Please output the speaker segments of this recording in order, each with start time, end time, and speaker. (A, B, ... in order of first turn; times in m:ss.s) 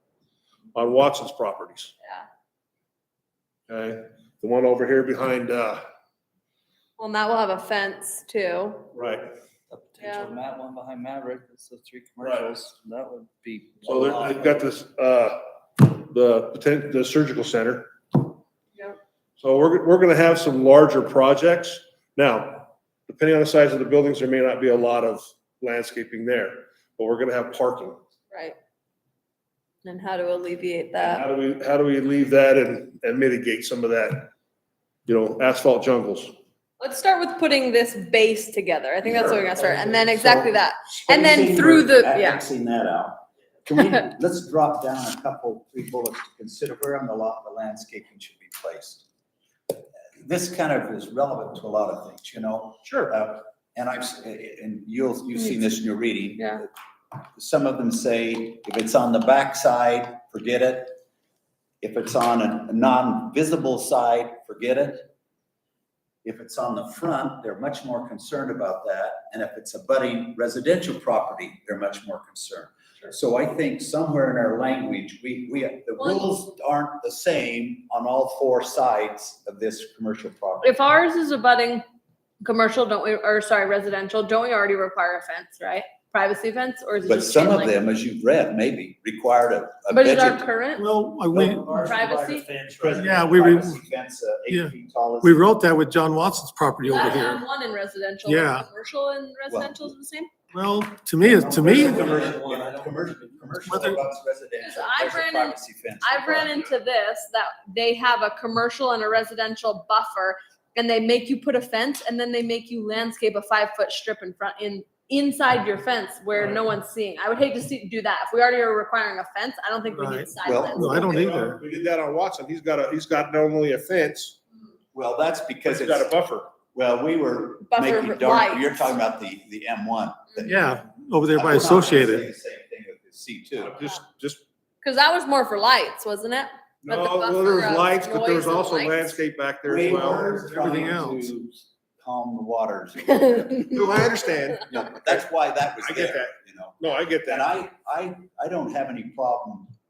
0:00.8-0:01.9 A
0:03.7-0:05.8 A
0:07.0-0:08.9 B
0:08.9-0:09.2 A
0:09.7-0:13.7 C
0:10.0-0:10.4 B
0:11.7-0:14.3 D
0:12.2-0:12.5 A
0:13.8-0:17.9 A
0:19.4-0:28.0 A
0:28.3-0:28.6 B
0:29.8-0:31.2 B
0:31.0-0:34.3 A
0:35.1-0:36.3 A
0:36.8-0:42.4 B
0:39.0-0:49.0 E
0:49.7-0:56.7 E
0:52.8-0:53.2 A
0:55.4-0:55.6 B
0:56.4-0:56.6 B
0:57.4-1:01.0 E
1:01.8-1:05.1 E
1:06.2-1:20.8 E
1:16.0-1:16.2 B
1:20.6-1:21.8 B
1:22.4-1:27.8 B
1:27.0-1:30.5 E
1:29.9-1:30.9 B
1:30.8-1:31.9 D
1:31.3-1:32.2 E
1:31.7-1:32.5 B
1:32.3-1:32.9 C
1:32.8-1:35.6 E
1:32.9-1:33.8 D
1:34.5-1:37.4 D
1:36.9-1:40.3 B
1:38.3-1:38.7 D
1:39.5-1:39.9 E
1:40.5-1:42.8 D
1:41.2-1:46.6 E
1:42.0-1:42.6 C
1:43.7-1:44.0 D
1:44.6-2:01.0 B
1:56.4-1:56.7 A
1:59.9-2:01.6 D
2:00.4-2:01.6 E
2:01.0-2:04.4 A
2:04.9-2:06.1 E
2:05.6-2:06.5 A
2:06.7-2:13.8 E
2:07.6-2:08.9 B
2:10.4-2:12.3 D
2:13.6-2:14.4 A
2:14.8-2:19.2 B
2:16.8-2:20.4 A
2:19.6-2:24.1 E
2:20.4-2:21.3 D
2:23.7-2:25.3 A
2:24.7-2:29.7 E
2:25.8-2:27.5 A